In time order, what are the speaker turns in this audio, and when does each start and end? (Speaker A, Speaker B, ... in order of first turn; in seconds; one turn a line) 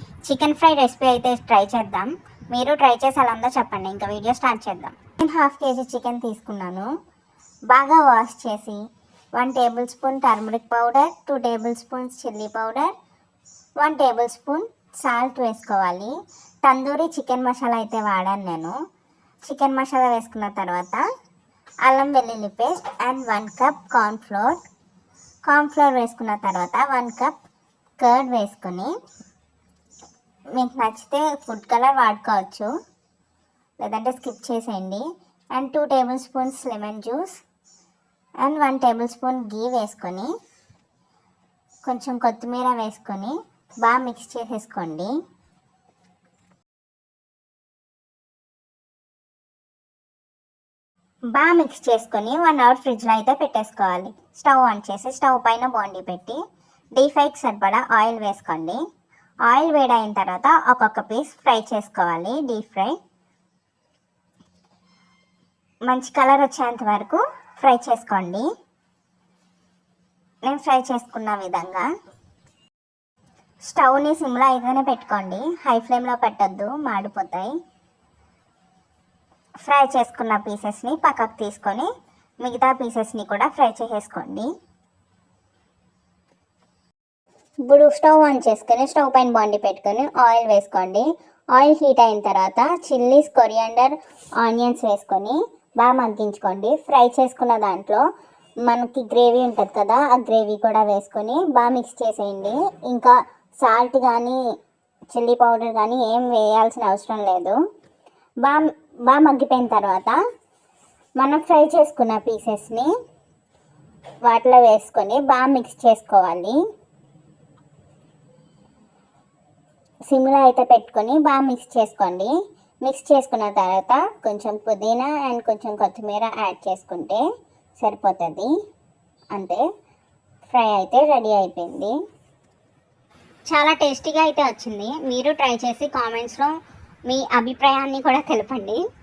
Speaker A: 0.3-6.9
Speaker A: 7.7-8.8
Speaker A: 9.4-12.9
Speaker A: 13.8-16.1
Speaker A: 16.6-18.8
Speaker A: 19.4-21.0
Speaker A: 21.8-24.6
Speaker A: 25.5-27.3
Speaker A: 28.0-28.9
Speaker A: 30.5-32.7
Speaker A: 33.8-37.4
Speaker A: 38.4-40.3
Speaker A: 41.8-45.1
Speaker A: 51.3-56.4
Speaker A: 57.0-58.8
Speaker A: 59.5-63.0
Speaker A: 65.9-68.5
Speaker A: 70.5-71.9
Speaker A: 73.7-77.5
Speaker A: 79.6-81.9
Speaker A: 82.4-84.5
Speaker A: 87.7-98.0
Speaker A: 98.7-104.4
Speaker A: 105.1-107.6
Speaker A: 108.4-110.2
Speaker A: 111.2-112.9
Speaker A: 114.3-116.6
Speaker A: 120.1-122.3
Speaker A: 122.8-127.2
Speaker A: 127.8-128.5
Speaker A: 129.3-129.6
Speaker A: 130.5-131.9
Speaker A: 133.5-136.5
Speaker A: 137.1-138.8